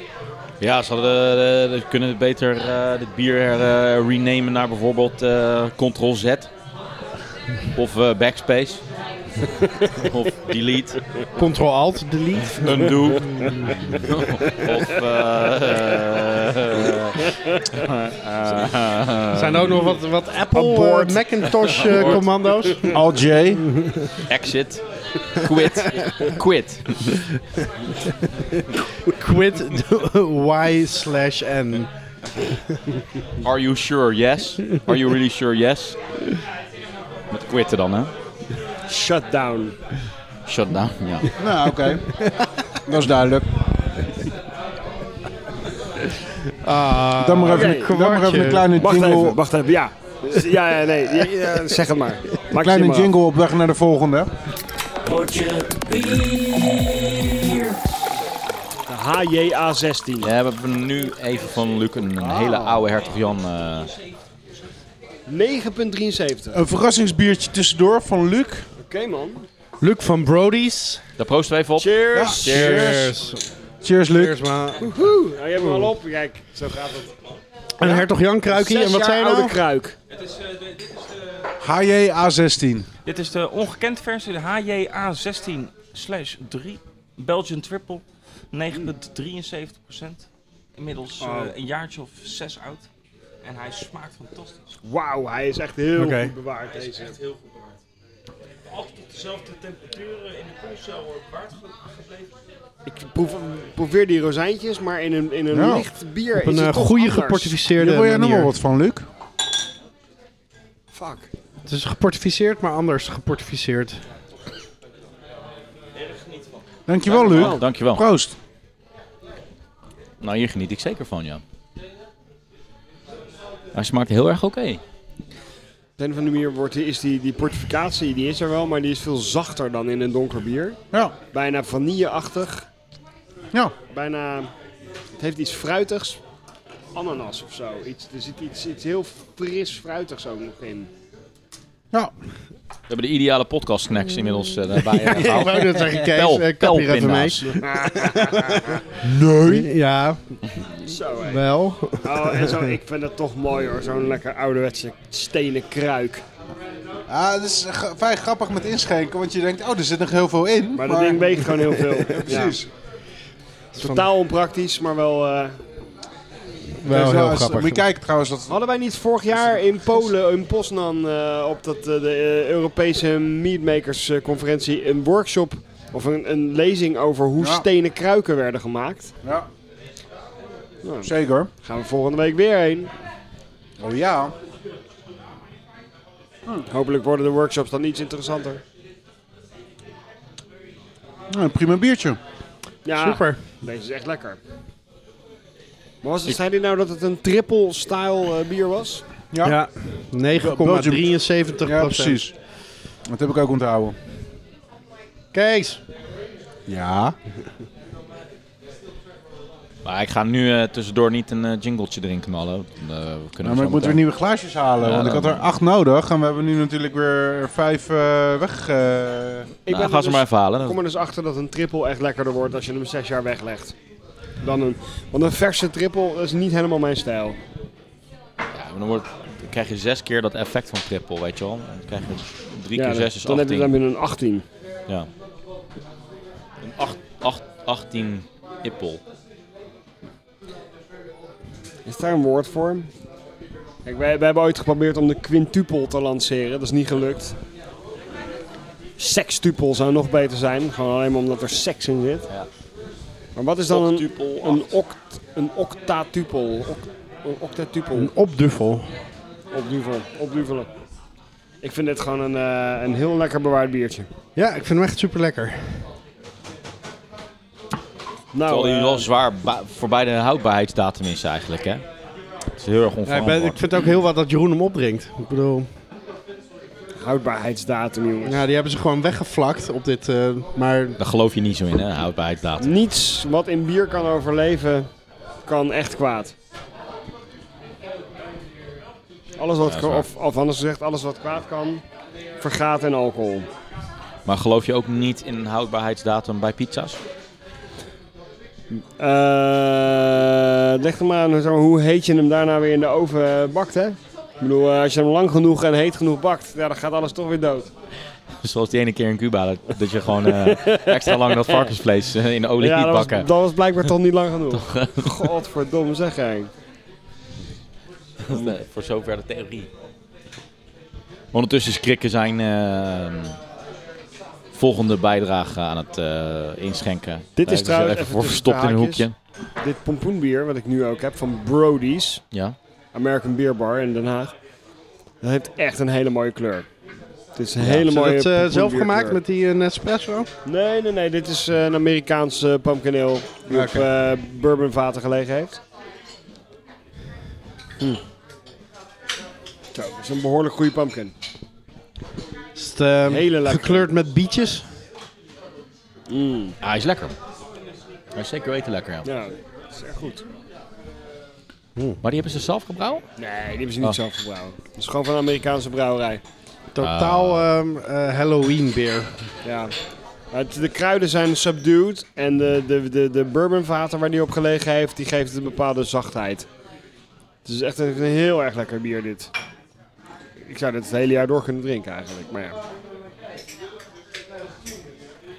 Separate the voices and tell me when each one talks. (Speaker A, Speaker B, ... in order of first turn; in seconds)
Speaker A: 0.6-6.5, 7.8-8.8, 10.0-11.0, 12.6-19.9, 24.3-27.2, 33.4-36.0, 37.3-38.1, 40.5-41.3, 55.1-57.6, 60.2-63.9, 71.2-72.7, 117.1-118.0, 120.2-121.4, 123.7-124.8, 142.9-147.6, 209.8-214.0, 214.8-215.4, 219.7-220.8, 228.5-233.7, 236.6-239.0, 253.7-254.7, 268.5-271.8, 272.6-273.6, 281.0-282.7, 289.6-290.1, 294.3-297.0, 308.4-313.3, 314.5-315.3, 318.3-319.7, 321.3-323.4, 324.5-329.1, 356.6-357.1, 358.1-359.1, 362.0-363.0, 366.8-367.5
Speaker B: 11.4-13.7, 19.3-23.0, 29.0-31.9, 46.6-48.7, 69.8-71.0, 72.4-73.4, 74.1-74.9, 75.6-75.9, 77.8-79.6, 96.0-96.3, 106.3-108.5, 111.7-114.0, 145.0-148.8, 149.3-150.2, 151.2-152.7, 163.8-164.1, 166.8-167.8, 193.0-193.4, 199.4-202.2, 205.3-205.8, 258.0-258.9, 264.4-265.9, 273.1-275.7, 278.2-281.0, 337.8-340.3, 343.5-343.9, 352.6-354.6, 366.7-369.1
Speaker C: 20.5-22.9, 38.9-39.8, 47.5-47.9, 48.8-53.1, 58.9-60.3, 65.3-66.6, 68.8-69.5, 71.8-73.0, 74.8-77.1, 77.8-80.0, 91.2-91.5, 94.8-97.2, 102.9-107.6, 110.9-111.3, 117.1-117.7, 126.0-130.8, 131.3-132.7, 133.9-134.5, 135.2-136.2, 136.9-140.9, 147.6-148.8, 150.9-151.4, 152.0-156.2, 160.8-162.6, 163.8-165.6, 168.5-179.1, 180.8-182.9, 186.7-188.6, 192.8-194.4, 196.0-199.0, 219.7-223.8, 224.4-227.4, 232.8-234.4, 241.9-242.9, 243.8-247.4, 249.0-252.3, 253.4-258.1, 259.5-260.7, 261.6-264.1, 268.3-269.1, 277.0-278.4, 282.6-284.9, 285.5-286.3, 289.4-291.8, 292.4-293.5, 299.0-307.7, 310.2-311.7, 312.6-316.5, 327.4-329.1, 329.6-332.2, 332.9-334.3, 335.2-336.7, 337.4-339.2, 340.5-345.6, 349.7-351.1, 353.1-353.9, 356.1-356.6, 359.1-360.2, 363.2-366.2, 369.4-369.7, 370.3-376.5, 377.4-379.3, 380.4-382.6
Speaker D: 22.9-23.6, 41.4-42.1, 42.9-43.5, 47.2-49.4, 52.5-54.3, 62.2-62.9, 66.5-68.7, 72.1-73.1, 73.8-74.4, 81.6-82.9, 105.5-105.9, 107.8-109.1, 116.9-118.4, 149.0-149.7, 157.1-161.5, 162.1-162.7, 166.8-168.6, 169.3-169.7, 177.4-177.7, 179.2-179.5, 181.0-181.5, 183.8-184.3, 191.3-192.2, 199.3-199.6, 200.3-201.1, 201.6-202.3, 203.1-204.0, 206.7-207.2, 213.4-219.5
Speaker E: 80.1-81.5, 83.0-92.9, 93.4-94.7, 96.7-97.8, 98.7-102.3, 116.0-116.6